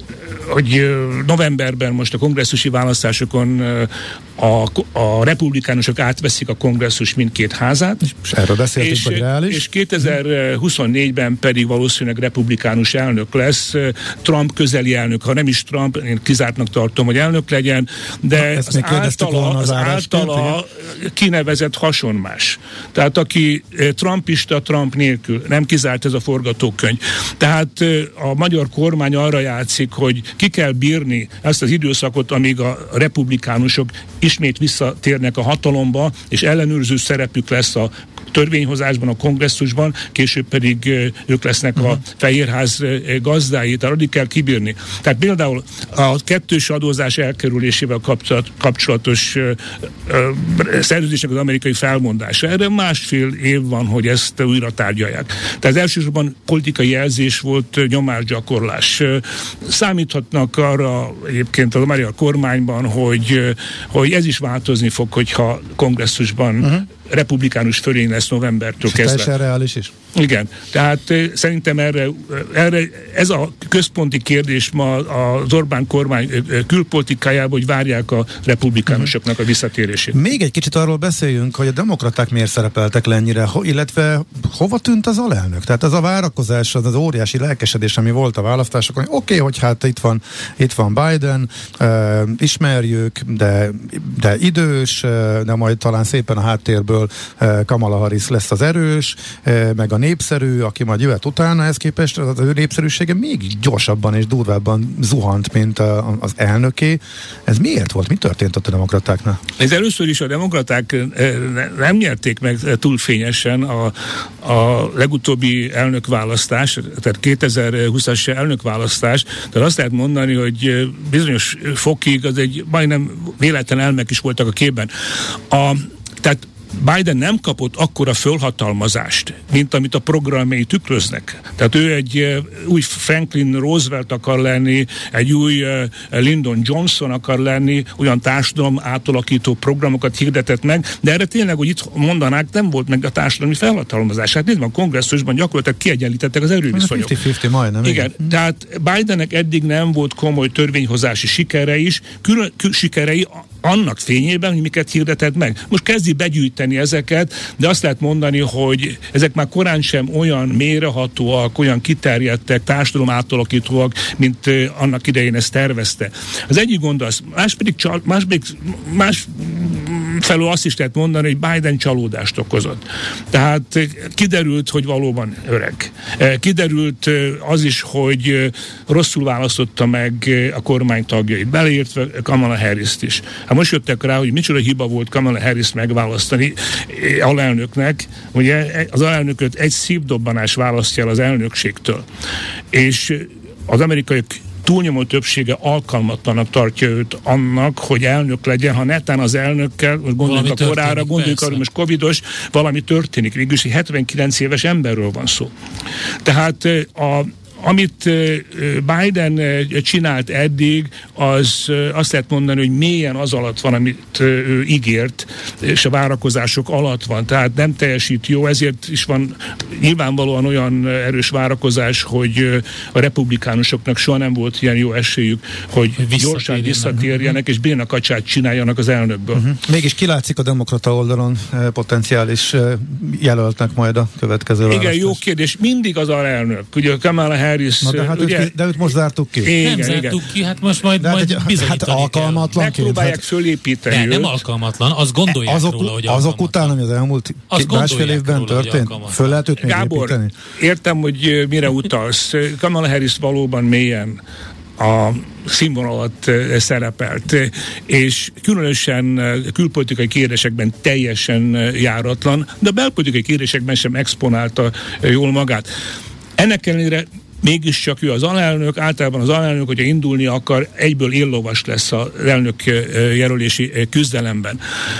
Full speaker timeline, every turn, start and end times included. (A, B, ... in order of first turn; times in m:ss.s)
0:00.5-1:09.3 A
0:08.3-0:09.6 B
0:18.3-0:20.6 B
1:08.8-1:09.9 B
1:10.2-1:20.2 A
1:20.1-1:49.4 B
1:49.6-2:04.9 A
2:05.5-2:27.2 A
2:26.7-2:28.3 B
2:27.8-3:12.0 A
3:12.7-3:25.5 A
3:20.2-3:21.6 C
3:26.2-3:49.4 A
3:46.0-3:47.0 C
3:49.4-3:55.2 B
3:54.7-3:58.6 A
3:57.8-3:59.5 B
3:59.4-4:00.2 A
3:59.6-4:02.5 C
4:01.0-4:03.2 B
4:02.5-4:04.4 A
4:03.9-4:06.8 C
4:05.3-4:10.3 B
4:07.5-4:09.4 C
4:09.6-4:14.2 A
4:14.8-4:25.7 A
4:26.4-4:34.6 A